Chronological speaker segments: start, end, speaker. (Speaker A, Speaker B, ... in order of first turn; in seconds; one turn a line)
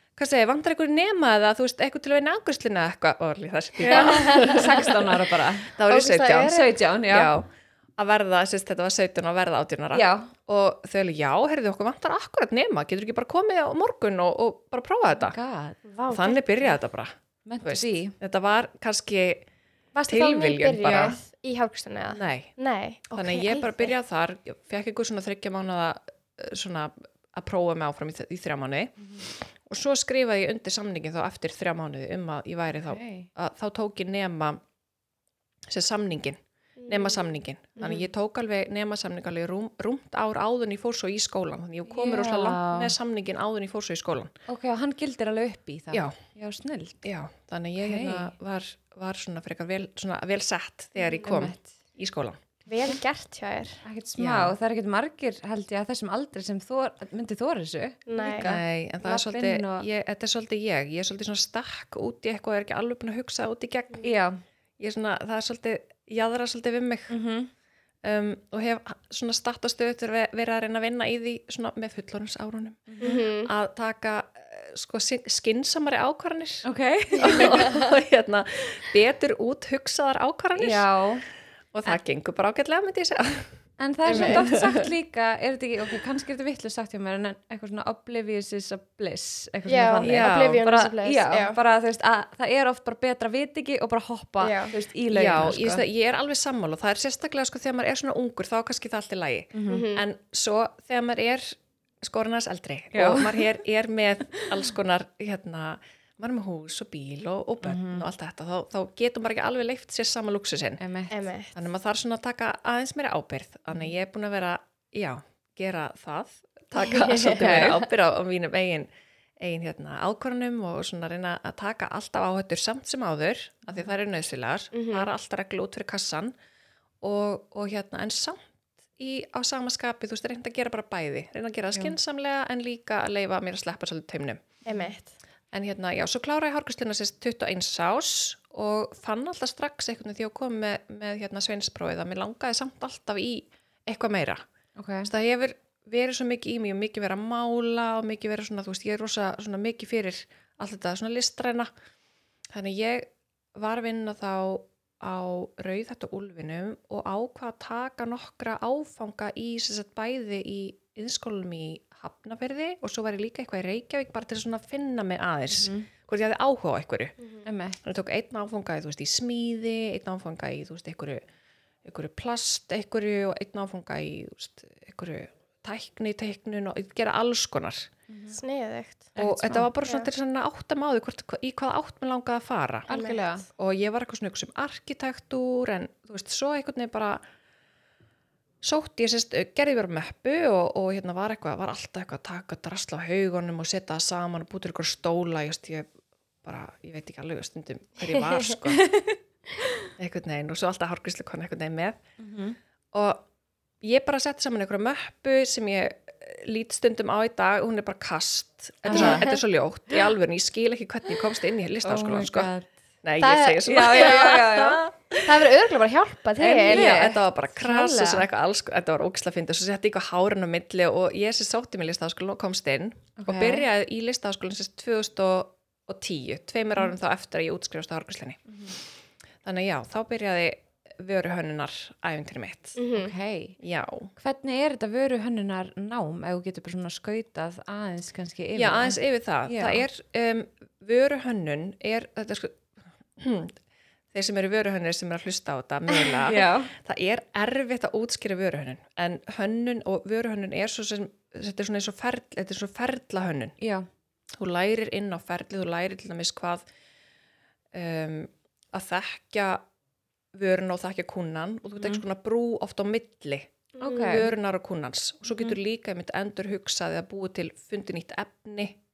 Speaker A: 0.2-5.2
Speaker B: 3.8-5.7
Speaker C: 3.9-4.6
Speaker A: 5.7-15.4
Speaker C: 5.9-6.7
Speaker B: 6.4-7.3
Speaker B: 9.9-10.3
Speaker B: 15.2-15.8
Speaker C: 15.8-16.8
Speaker A: 16.1-19.5
Speaker B: 17.5-18.1
Speaker C: 19.9-23.9
Speaker A: 20.1-21.2
Speaker B: 20.9-21.1
Speaker A: 22.1-22.5
Speaker A: 23.1-34.6
Speaker B: 29.0-29.3
Speaker B: 32.9-33.3
Speaker A: 35.7-44.3
Speaker C: 36.8-37.2
Speaker B: 37.8-38.1
Speaker B: 41.9-43.0
Speaker B: 44.5-47.1
Speaker A: 47.0-52.4
Speaker B: 47.8-48.3
Speaker B: 51.2-51.7
Speaker C: 52.7-53.8
Speaker B: 53.8-59.9
Speaker A: 54.2-54.5
Speaker C: 58.1-58.5
Speaker A: 58.4-64.1
Speaker B: 64.0-64.4
Speaker A: 64.8-67.2
Speaker B: 67.1-67.5
Speaker A: 68.0-76.6
Speaker B: 72.9-73.2
Speaker C: 73.0-73.5
Speaker B: 76.6-77.7
Speaker A: 77.2-80.9
Speaker B: 80.6-81.2
Speaker A: 81.7-83.5
Speaker B: 83.8-95.8
Speaker A: 84.1-84.9
Speaker C: 84.1-84.4
Speaker C: 89.7-91.6
Speaker A: 90.0-90.6
Speaker C: 94.4-94.8
Speaker A: 95.1-110.8
Speaker B: 99.5-99.9
Speaker C: 99.7-100.0
Speaker B: 102.9-103.5
Speaker B: 104.4-104.6
Speaker B: 107.6-108.1
Speaker B: 110.8-111.2
Speaker C: 111.1-111.5
Speaker A: 111.5-126.3
Speaker C: 116.8-117.8
Speaker B: 117.2-117.8
Speaker B: 123.7-123.9
Speaker C: 124.7-125.1
Speaker A: 127.0-128.4
Speaker A: 129.0-134.6
Speaker C: 134.7-135.1
Speaker B: 134.7-135.0
Speaker A: 135.5-144.4
Speaker B: 144.8-145.1
Speaker A: 145.1-151.7
Speaker A: 152.5-167.2
Speaker B: 165.5-165.9
Speaker B: 167.4-167.8
Speaker A: 167.8-171.2
Speaker A: 171.8-177.9
Speaker B: 178.1-178.4
Speaker C: 178.3-179.1
Speaker B: 179.2-179.7
Speaker A: 179.2-182.9
Speaker C: 182.9-183.2
Speaker B: 182.9-183.5
Speaker A: 183.6-187.2
Speaker A: 188.6-195.9
Speaker A: 196.4-198.9
Speaker B: 198.7-199.2
Speaker A: 200.0-202.0
Speaker B: 202.2-202.6
Speaker A: 202.9-203.2
Speaker A: 203.8-212.5
Speaker B: 208.8-209.4
Speaker C: 208.9-209.4
Speaker B: 211.8-212.8
Speaker A: 213.0-215.3
Speaker C: 213.2-214.5
Speaker B: 213.7-214.8
Speaker C: 215.2-217.0
Speaker A: 216.4-228.8
Speaker B: 216.7-217.2
Speaker C: 217.6-218.2
Speaker B: 223.2-223.7
Speaker B: 228.5-228.8
Speaker A: 229.4-232.8
Speaker C: 232.8-233.1
Speaker B: 232.9-233.6
Speaker A: 233.6-234.1
Speaker B: 234.2-239.9
Speaker A: 238.5-242.6
Speaker A: 243.2-243.6
Speaker A: 244.1-253.6
Speaker B: 246.2-246.7
Speaker B: 253.6-253.9
Speaker A: 254.4-256.6
Speaker A: 257.7-259.6
Speaker A: 260.3-263.5
Speaker C: 263.8-264.3
Speaker B: 263.8-264.3
Speaker A: 264.0-268.8
Speaker B: 265.3-265.6